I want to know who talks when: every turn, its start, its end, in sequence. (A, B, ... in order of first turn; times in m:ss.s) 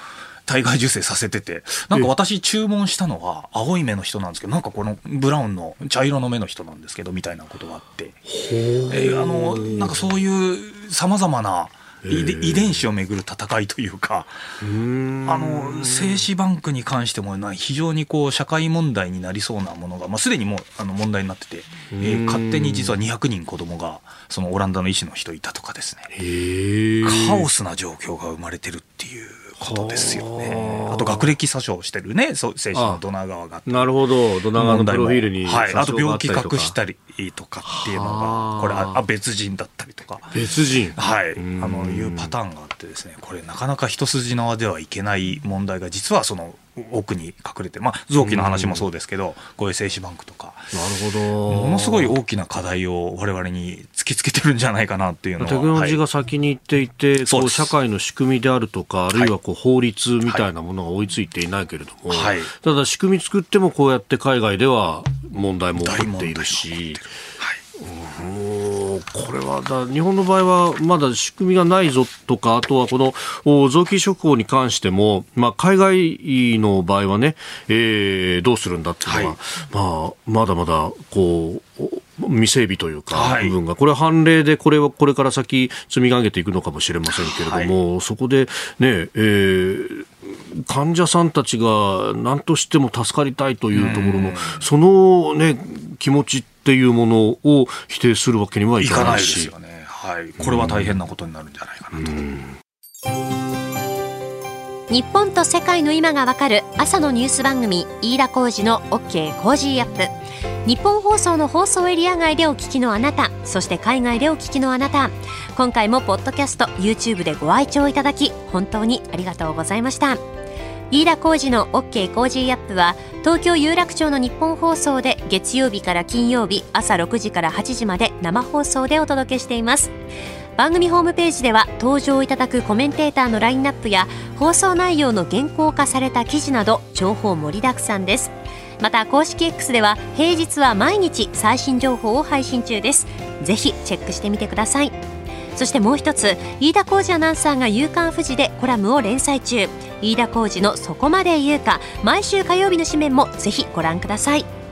0:00.4-0:08.2 A
0:08.3-0:10.0 B
0:08.9-0:14.4 A
0:12.0-0:12.8 B
0:14.6-0:16.2 B
0:15.2-0:26.1 A
0:21.9-0:22.9 B
0:26.1-0:27.5 B
0:27.0-0:33.9 A
0:29.6-0:31.3 B
0:32.7-0:33.0 B
0:33.6-0:36.7 B
0:34.5-0:40.4 A
0:37.6-0:39.0 B
0:40.3-0:42.3 B
0:40.9-0:50.7 A
0:48.2-0:48.9 B
0:50.7-0:52.2 B
0:51.5-0:56.0 A
0:55.4-1:07.0 B
0:57.3-0:57.7 A
1:02.1-1:02.5 A
1:05.8-1:07.6 A
1:07.8-1:39.5 B
1:19.0-1:19.4 A
1:23.1-1:23.6 A
1:27.2-1:27.7 A
1:33.7-1:34.6 A
1:38.8-1:42.2 A
1:40.4-1:41.0 B
1:41.9-1:42.6 B
1:44.9-1:50.1 C
1:50.6-2:00.2 C
2:00.9-2:09.9 C
2:10.6-2:25.0 C
2:25.5-2:34.5 C